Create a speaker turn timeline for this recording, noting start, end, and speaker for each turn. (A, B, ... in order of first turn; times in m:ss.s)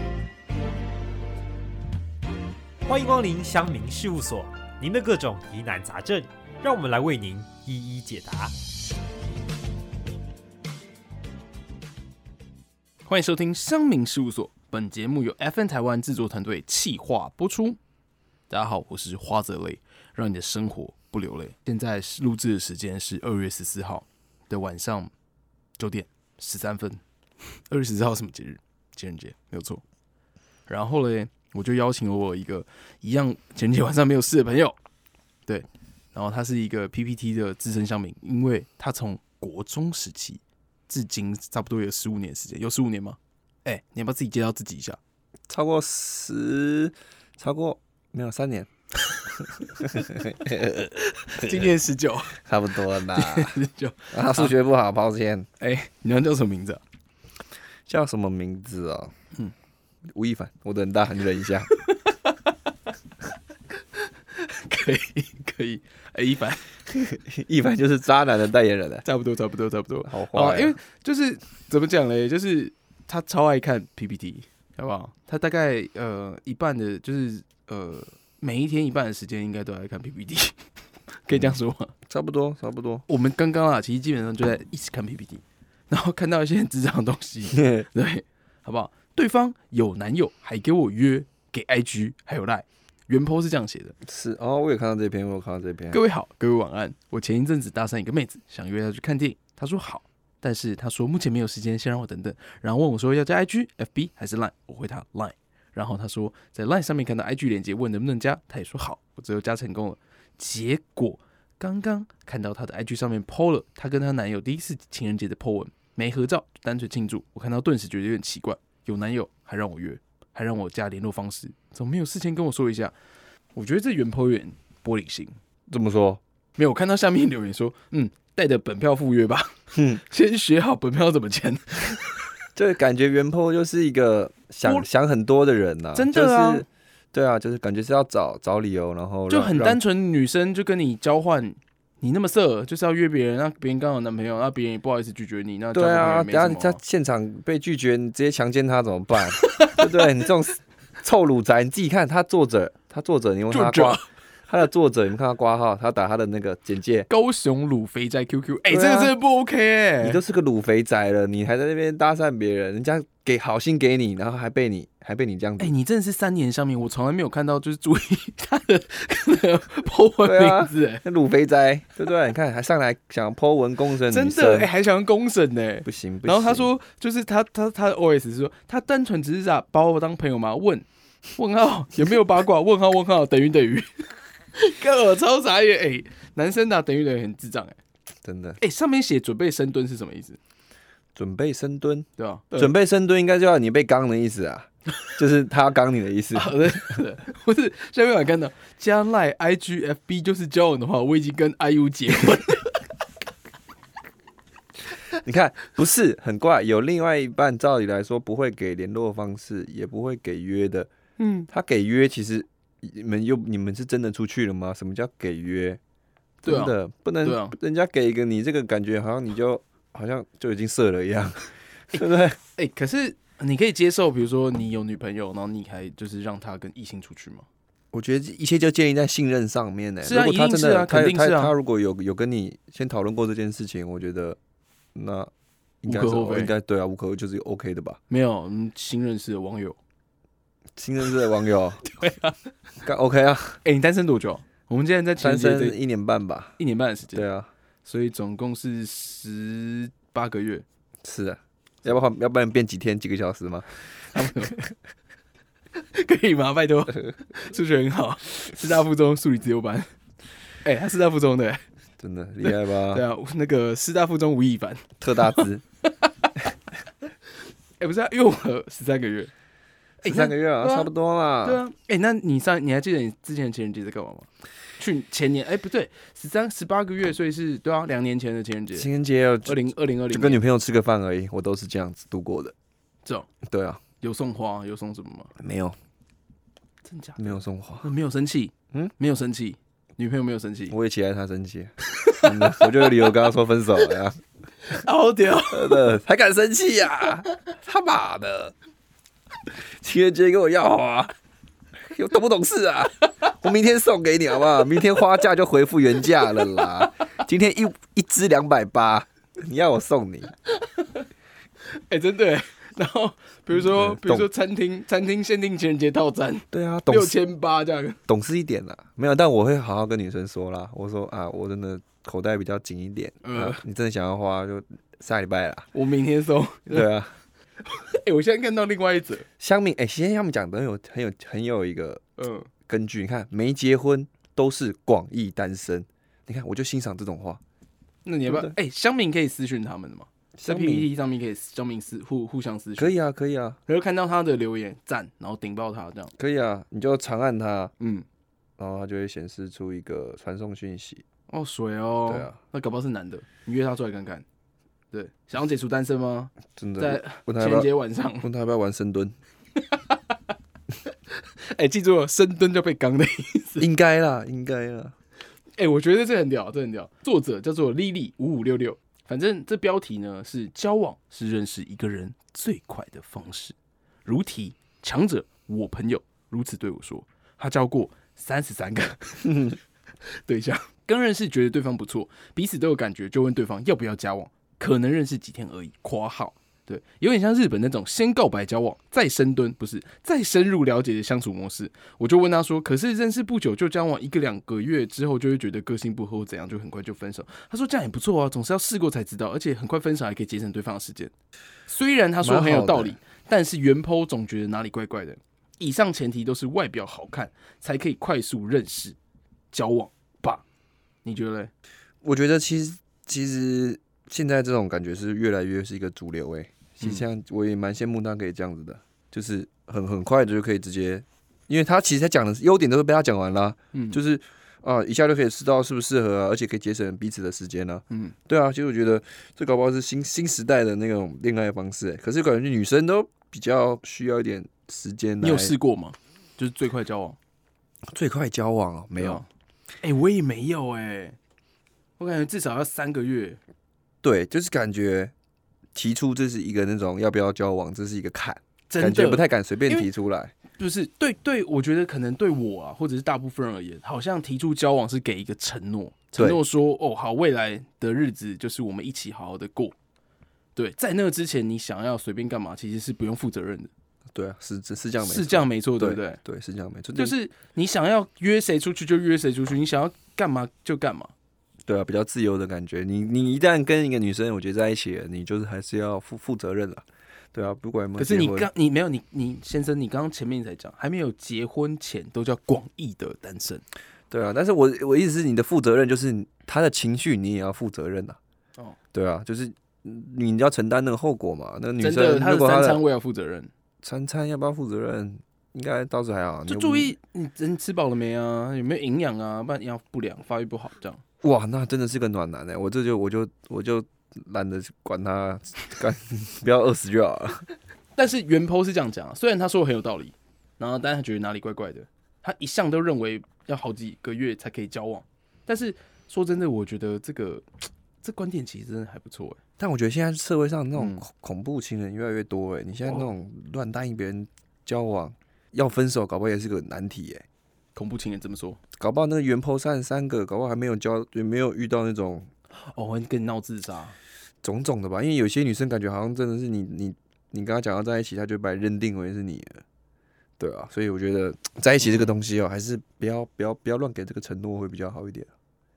0:02.8-0:08.5 A
0:13.1-0:17.8 B
0:18.5-0:25.1 B
0:25.8-0:27.0 B
0:27.7-0:29.8 B
0:30.7-0:34.8 B
0:35.5-0:45.0 B
0:45.5-0:48.7 C
0:49.7-0:51.7 C
0:51.2-0:52.4 B
0:52.4-0:53.5 C
0:53.0-0:54.5 B
0:54.1-0:55.5 C
0:55.6-0:56.8 B
0:57.9-0:59.1 C
1:00.1-1:01.7 C
1:01.9-1:02.4 B
1:04.4-1:06.6 B
1:06.9-1:09.0 C
1:09.0-1:20.6 B
1:10.1-1:10.7 C
1:21.2-1:21.9 B
1:22.1-1:23.0 C
1:23.1-1:34.0 B
1:27.5-1:27.9 C
1:34.0-1:36.0 C
1:35.9-2:02.9 B
2:03.6-2:05.4 B
2:05.7-2:06.2 C
2:06.6-2:12.3 B
2:09.7-2:10.0 C
2:12.6-2:19.8 C
2:16.0-2:16.6 B
2:19.3-2:26.8 B
2:25.7-2:37.1 C
2:29.4-2:30.1 B
2:33.5-2:34.1 B
2:37.1-2:40.2 B
2:38.7-2:39.2 C
2:40.0-2:45.7 C
2:45.6-2:51.0 B
2:50.2-2:54.7 C
2:54.1-3:07.8 B
2:55.8-2:56.7 C
3:08.2-3:08.6 C
3:08.6-3:10.4 B
3:11.2-3:17.0 C
3:12.2-3:12.8 B
3:16.3-3:22.8 B
3:25.1-3:30.9 C
3:31.2-3:31.5 B
3:31.5-3:35.8 C
3:36.4-3:37.6 B
3:36.4-3:42.4 C
3:41.9-3:47.5 B
3:47.9-3:54.4 C
3:50.0-3:51.5 B
3:55.0-3:55.3 C
3:55.8-3:58.0 C
3:55.9-3:56.5 B
3:58.1-3:59.8 B
4:00.8-4:01.8 C
4:01.8-4:02.4 B
4:02.8-4:03.6 C
4:03.6-4:05.8 B
4:05.2-4:06.6 C
4:06.6-4:07.3 B
4:07.1-4:07.5 C
4:07.8-4:10.6 B
4:11.0-4:14.5 C
4:14.1-4:14.6 B
4:15.8-4:19.9 B
4:20.6-4:21.6 B
4:22.0-4:23.0 C
4:22.4-4:26.4 B
4:25.0-4:25.6 C
4:27.8-4:29.3 B
4:30.0-4:31.6 C
4:30.0-4:30.9 B
4:31.4-4:38.9 B
4:38.8-4:39.6 C
4:39.4-4:40.4 B
4:40.1-4:42.6 C
4:43.0-4:43.3 B
4:43.4-4:43.8 C
4:44.0-4:45.3 B
4:45.4-4:45.8 C
4:46.8-4:50.8 B
4:47.2-4:47.9 C
4:50.7-4:54.2 C
4:52.0-4:53.1 B
4:54.7-4:55.9 B
4:55.5-4:58.5 C
4:59.5-5:01.1 C
5:01.9-5:10.3 C
5:11.7-5:18.0 B
5:13.5-5:14.3 C
5:16.5-5:17.2 C
5:18.1-5:25.7 C
5:23.2-5:23.6 B
5:25.7-5:26.9 B
5:26.7-5:27.2 C
5:27.6-5:29.3 B
5:29.4-5:32.0 C
5:32.2-5:32.5 B
5:32.7-5:37.4 C
5:38.0-5:42.9 B
5:38.3-5:38.5 C
5:40.4-5:40.9 C
5:42.8-5:43.6 C
5:43.7-5:46.1 B
5:46.2-5:47.7 C
5:47.8-5:48.1 B
5:48.6-5:51.0 C
5:51.3-5:54.2 B
5:52.1-5:52.4 C
5:54.9-5:58.3 B
5:56.5-5:57.7 C
5:58.2-5:59.2 C
5:59.7-6:00.0 B
6:01.4-6:03.7 B
6:03.6-6:05.0 C
6:05.6-6:19.6 B
6:20.2-6:41.1 B
6:41.7-6:49.0 B
6:42.2-6:43.0 C
6:49.5-6:50.4 B
6:51.0-6:51.5 B
6:52.0-7:15.5 C
7:03.7-7:04.0 B
7:15.2-7:17.2 B
7:17.9-7:19.2 C
7:19.0-7:19.3 B
7:19.8-7:21.2 B
7:22.0-7:23.4 B
7:24.0-7:25.1 C
7:25.8-7:30.4 C
7:28.7-7:29.9 B
7:30.6-7:39.7 B
7:36.2-7:36.4 C
7:40.6-7:43.7 B
7:44.1-7:47.2 C
7:45.0-7:46.2 B
7:47.0-7:51.1 B
7:51.7-7:58.5 C
7:58.0-8:03.6 B
8:04.1-8:08.2 C
8:08.9-8:12.8 C
8:11.8-8:13.5 B
8:13.8-8:17.0 C
8:16.5-8:21.0 B
8:21.2-8:27.5 C
8:28.0-8:39.4 B
8:39.6-8:47.2 C
8:40.8-8:41.0 B
8:47.8-8:48.6 B
8:48.8-8:52.3 C
8:52.6-8:54.0 B
8:54.4-8:59.6 C
9:00.4-9:05.3 C
9:01.8-9:02.1 B